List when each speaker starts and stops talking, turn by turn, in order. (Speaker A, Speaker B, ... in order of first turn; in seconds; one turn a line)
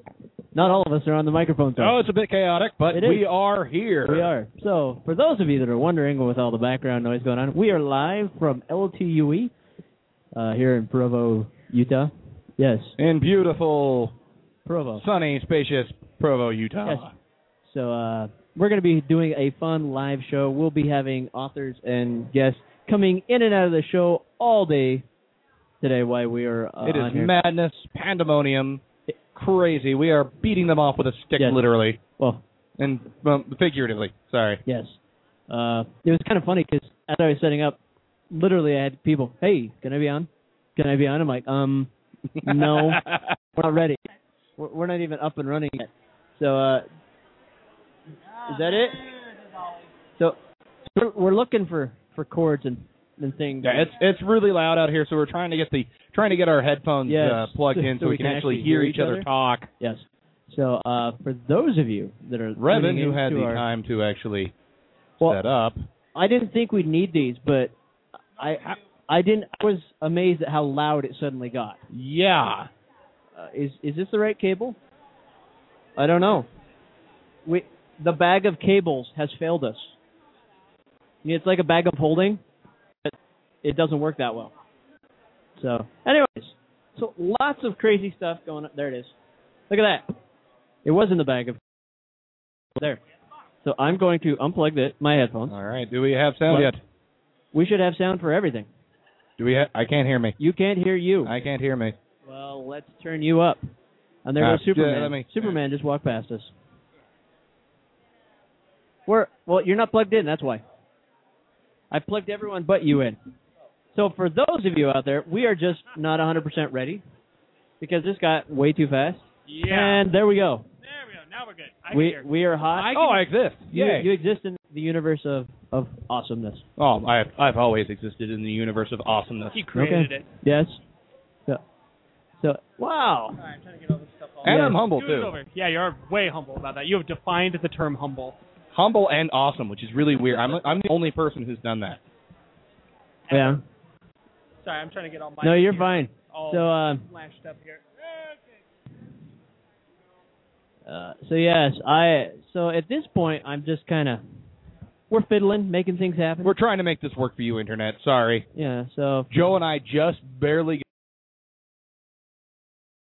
Speaker A: 0.5-2.0
Speaker B: 1.8-4.3
Speaker A: 2.9-3.3
Speaker A: 4.0-9.5
Speaker A: 10.3-13.0
Speaker B: 13.0-14.1
Speaker A: 14.7-15.1
Speaker B: 15.0-17.1
Speaker A: 17.6-25.1
Speaker A: 25.8-27.3
Speaker B: 26.8-28.8
Speaker B: 29.4-32.0
Speaker A: 32.2-32.4
Speaker B: 32.8-34.6
Speaker A: 34.7-35.0
Speaker A: 35.5-37.8
Speaker A: 38.3-41.9
Speaker B: 42.4-43.3
Speaker A: 42.4-44.0
Speaker A: 44.6-46.9
Speaker A: 48.4-49.0
Speaker A: 50.9-53.9
Speaker B: 53.6-59.7
Speaker A: 57.1-59.3
Speaker A: 59.8-63.6
Speaker B: 62.6-64.5
Speaker B: 65.2-65.8
Speaker A: 66.2-67.7
Speaker A: 68.4-71.8
Speaker B: 71.9-72.7
Speaker A: 73.3-74.8
Speaker A: 76.0-76.5
Speaker A: 77.5-80.0
Speaker A: 81.2-82.4
Speaker A: 83.0-84.5
Speaker A: 85.6-89.1
Speaker A: 89.7-90.2
Speaker A: 90.8-91.6
Speaker A: 93.6-95.5
Speaker B: 95.5-96.8
Speaker A: 96.5-96.7
Speaker A: 97.5-98.7
Speaker B: 99.4-100.4
Speaker A: 100.4-101.3
Speaker B: 101.2-102.0
Speaker A: 102.3-103.6
Speaker A: 104.2-106.5
Speaker B: 104.4-105.5
Speaker A: 109.1-110.7
Speaker A: 111.9-113.2
Speaker A: 113.9-117.0
Speaker A: 117.8-120.7
Speaker C: 119.5-120.0
Speaker C: 120.8-123.2
Speaker A: 121.9-123.0
Speaker B: 123.0-124.1
Speaker A: 123.7-126.7
Speaker B: 126.8-129.6
Speaker C: 129.5-130.3
Speaker A: 129.7-130.8
Speaker A: 132.4-133.4
Speaker C: 133.4-138.4
Speaker B: 134.4-135.4
Speaker A: 134.4-134.8
Speaker B: 138.7-142.0
Speaker C: 143.3-143.6
Speaker A: 143.3-143.6
Speaker C: 144.6-147.8
Speaker A: 145.4-147.1
Speaker A: 150.8-154.2
Speaker A: 155.1-156.6
Speaker B: 156.4-158.5
Speaker A: 158.5-159.3
Speaker B: 159.3-160.8